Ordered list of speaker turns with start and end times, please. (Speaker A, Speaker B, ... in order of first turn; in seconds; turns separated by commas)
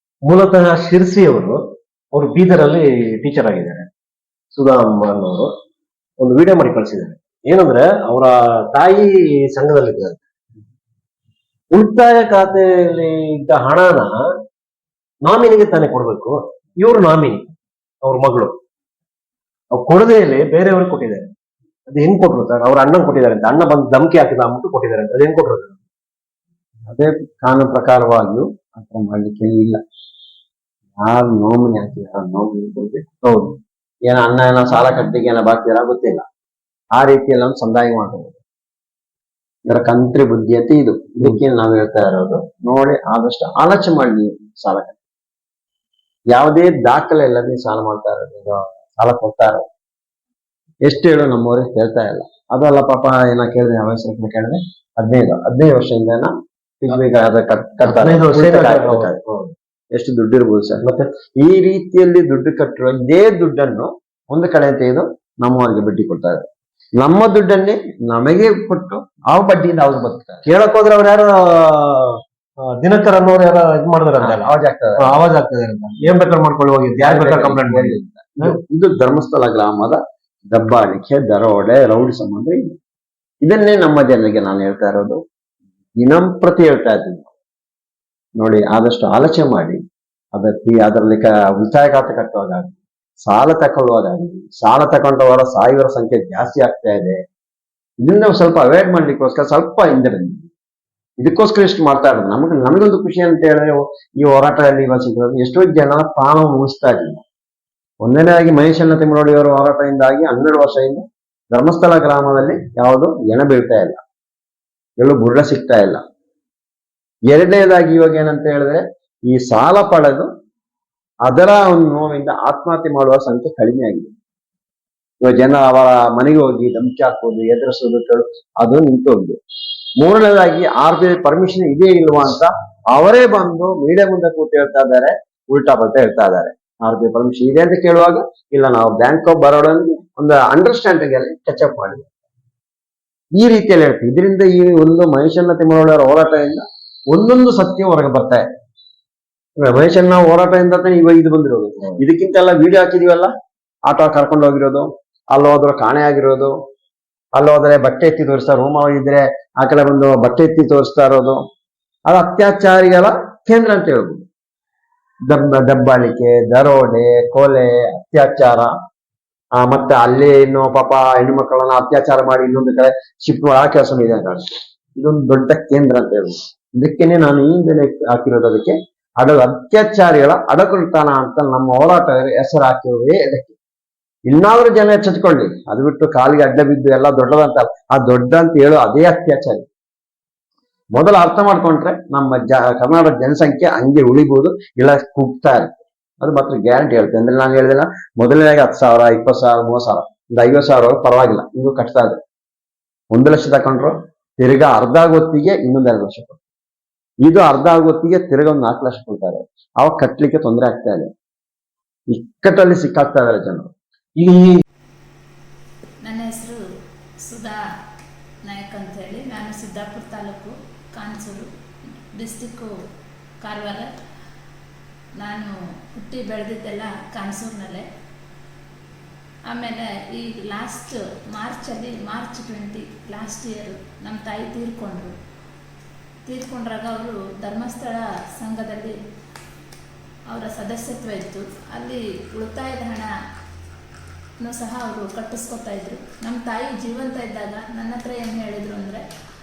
Speaker A: 0.3-1.6, Speaker A: 2.1-3.9, Speaker A: 4.5-5.5, Speaker A: 6.2-10.2, Speaker A: 11.7-14.1, Speaker A: 15.2-18.6, Speaker A: 19.7-21.3, Speaker A: 21.9-25.8, Speaker B: 26.9-29.8, Speaker B: 31.0-33.0, Speaker A: 33.2-33.6, Speaker B: 34.1-36.2, Speaker B: 37.0-38.4, Speaker B: 39.7-45.0, Speaker B: 46.3-49.6, Speaker B: 50.8-59.2, Speaker A: 57.8-59.5, Speaker B: 59.9-66.5, Speaker A: 60.8-61.1, Speaker B: 67.0-70.5, Speaker A: 70.5-72.2, Speaker A: 72.8-78.6, Speaker B: 74.2-75.1, Speaker B: 77.0-82.7, Speaker B: 83.4-85.2, Speaker B: 86.0-87.3, Speaker B: 88.4-89.8, Speaker B: 90.3-97.2, Speaker B: 98.0-100.5, Speaker B: 101.2-107.2, Speaker B: 108.0-114.0, Speaker B: 115.0-116.0, Speaker B: 117.3-120.3, Speaker B: 121.2-124.1, Speaker B: 125.2-129.4, Speaker B: 130.0-142.1, Speaker B: 143.4-148.4, Speaker B: 149.6-153.3, Speaker B: 153.9-156.5, Speaker B: 157.3-161.4, Speaker B: 162.1-164.2, Speaker B: 165.3-168.7, Speaker B: 169.6-183.5, Speaker B: 184.3-189.7, Speaker B: 190.9-202.2, Speaker B: 203.1-206.4, Speaker B: 207.2-211.1, Speaker B: 212.1-213.7, Speaker A: 214.2-214.5, Speaker C: 216.0-216.6, Speaker C: 217.3-217.6, Speaker C: 218.4-221.5, Speaker C: 222.2-222.7, Speaker C: 223.4-223.9, Speaker C: 225.2-227.8, Speaker C: 229.5-235.1, Speaker C: 236.3-239.0, Speaker C: 240.3-243.1, Speaker C: 244.4-249.0